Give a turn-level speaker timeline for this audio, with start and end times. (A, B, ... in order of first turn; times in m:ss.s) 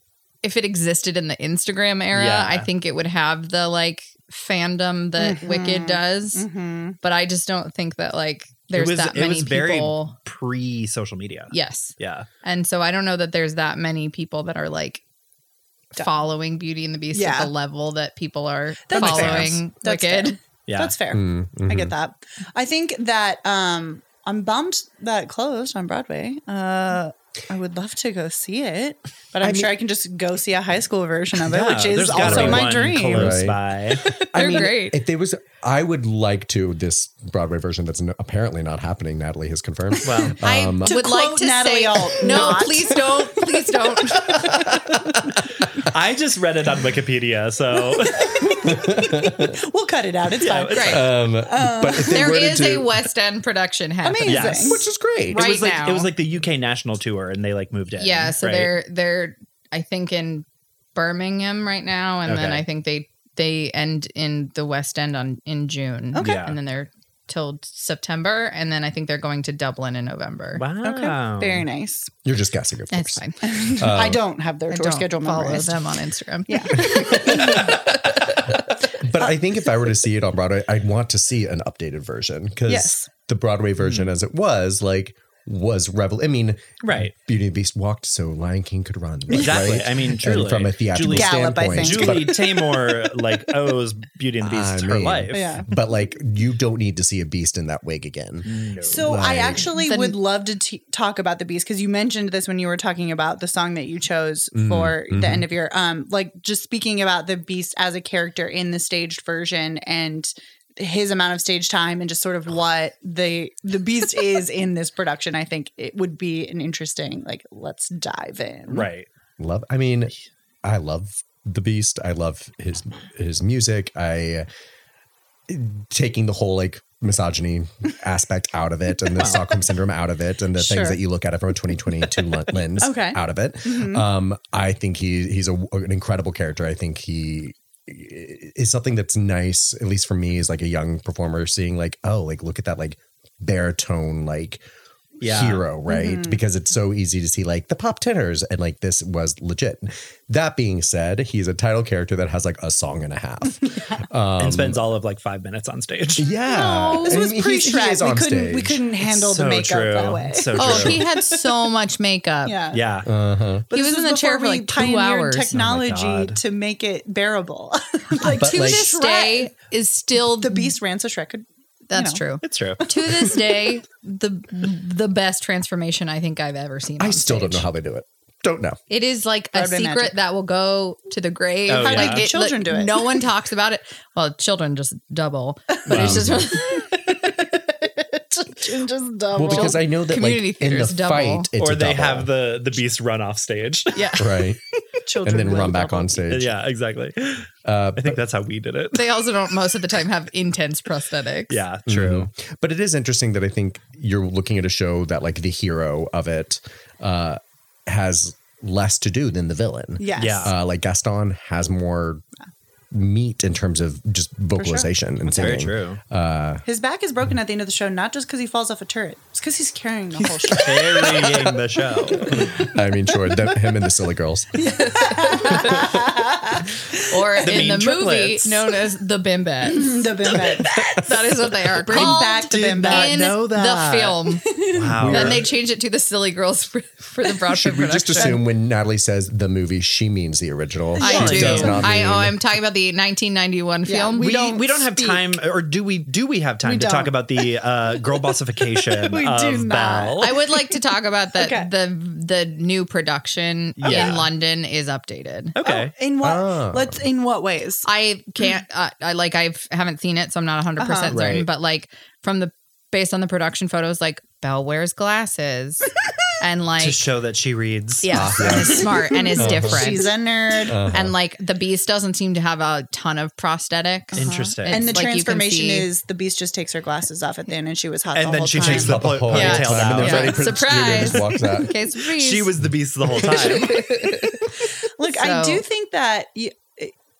0:00.4-0:06.4 A
0:02.1-0:02.7 B
0:05.2-0:07.0 C
0:07.0-0:10.1 A
0:08.7-0:12.3 B
0:11.5-0:15.0 A
0:16.0-0:20.4 A
0:17.1-0:17.5 C
0:18.9-0:33.4 C
0:19.0-0:19.6 B
0:20.7-0:20.9 B
0:21.1-0:21.9 D
0:29.4-0:29.7 D
0:31.4-0:34.1 B
0:32.2-0:41.0 D
0:34.3-0:35.0 A
0:40.0-0:40.3 C
0:40.0-0:40.4 B
0:40.4-0:44.7 A
0:40.8-0:43.3 C
0:44.2-0:45.4 D
0:45.8-0:48.6 B
0:48.1-0:52.4 C
0:48.4-0:49.6 D
0:50.4-0:51.1 B
0:50.7-0:51.0 A
0:50.8-0:52.9 D
0:52.0-0:54.6 A
0:54.0-0:54.9 C
0:54.2-0:58.7 B
0:54.6-0:55.4 D
0:55.3-0:56.1 A
0:58.0-1:10.6 A
1:02.2-1:02.6 B
1:06.1-1:06.4 C
1:06.2-1:06.6 B
1:10.6-1:11.6 B
1:10.8-1:12.1 C
1:12.2-1:14.2 D
1:12.9-1:13.4 A
1:13.4-1:18.4 C
1:14.7-1:17.6 A
1:16.8-1:32.4 D
1:18.9-1:19.3 C
1:22.7-1:23.1 C
1:23.8-1:24.1 B
1:26.8-1:27.1 B
1:29.3-1:29.9 C
1:29.3-1:35.6 B
1:31.0-1:33.1 C
1:34.4-1:38.5 D
1:35.3-1:35.7 C
1:38.4-1:39.1 B
1:38.8-1:58.9 C
1:39.0-1:39.7 D
1:39.7-1:40.2 A
1:44.5-1:45.5 D
1:58.7-1:59.1 B
1:59.4-2:00.1 D
2:00.6-2:04.5 D
2:05.5-2:24.6 D
2:09.1-2:09.4 B
2:10.6-2:11.0 C
2:12.8-2:14.0 C
2:25.2-2:25.6 B
2:25.2-2:34.8 D
2:25.9-2:26.4 C
2:33.6-2:34.0 C
2:34.4-2:36.3 B
2:36.2-2:38.8 D
2:36.5-2:37.2 A
2:36.9-2:41.5 C
2:39.0-2:41.0 B
2:40.6-2:42.6 A
2:40.6-2:41.0 D
2:42.4-2:42.8 C
2:42.7-2:43.1 B
2:43.0-2:43.7 D
2:43.7-2:49.5 C
2:43.7-2:45.5 A
2:45.5-2:46.4 B
2:48.2-2:48.9 D
2:48.2-2:50.7 A
2:50.2-2:52.2 C
2:51.9-2:57.7 A
2:52.4-2:52.8 B
2:57.0-2:58.8 D
2:58.9-3:06.9 A
2:59.5-3:00.1 C
3:01.7-3:02.3 B
3:01.8-3:03.3 C
3:05.9-3:06.5 D
3:05.9-3:09.8 C
3:05.9-3:06.2 B
3:09.3-3:12.3 D
3:09.5-3:11.5 A
3:11.6-3:14.1 B
3:13.9-3:14.3 A
3:14.2-3:14.6 D
3:15.0-3:16.2 C
3:15.2-3:16.5 D
3:16.3-3:19.1 B
3:17.6-3:18.2 D
3:18.9-3:21.6 A
3:21.5-3:22.3 B
3:21.9-3:32.2 D
3:30.0-3:30.5 C
3:30.2-3:30.5 B
3:32.9-3:36.6 D
3:34.6-3:34.9 C
3:35.2-3:36.0 B
3:36.6-3:41.3 C
3:40.5-3:41.6 D
3:40.5-3:42.5 B
3:42.1-3:44.6 D
3:44.5-3:47.4 C
3:45.3-3:45.9 A
3:45.5-3:46.0 D
3:47.1-3:54.5 A
3:47.4-3:48.7 B
3:49.6-3:51.2 C
3:50.7-3:51.2 D
3:51.8-3:53.4 C
3:51.9-3:55.5 B
3:54.5-3:54.9 C
3:54.8-3:55.5 D
3:55.1-3:58.4 A
3:57.5-4:02.4 D
3:58.2-3:58.4 C
4:01.0-4:01.8 B
4:01.0-4:04.4 A
4:01.0-4:01.8 C
4:03.8-4:05.4 C
4:04.2-4:10.4 B
4:06.6-4:07.6 C
4:08.1-4:10.7 C
4:10.2-4:15.6 A
4:11.4-4:11.7 C
4:13.8-4:14.3 B
4:13.8-4:14.2 C
4:15.6-4:15.9 B
4:15.6-4:17.8 C
4:16.2-4:17.0 D
4:17.8-4:25.9 A
4:20.8-4:21.2 C
4:21.1-4:21.5 B
4:26.4-4:27.1 A
4:26.8-4:28.3 B
4:28.0-4:30.1 A
4:28.1-4:29.9 D
4:28.4-4:30.8 C
4:30.6-4:31.1 D
4:30.8-4:35.9 A
4:34.2-4:35.0 B
4:34.2-4:39.1 C
4:38.1-4:41.2 B
4:38.6-4:41.8 D
4:39.3-4:42.5 A
4:42.2-4:43.9 B
4:43.2-4:43.5 D
4:43.3-4:44.3 C
4:43.6-4:44.4 A
4:45.0-4:46.9 C
4:45.1-4:45.6 A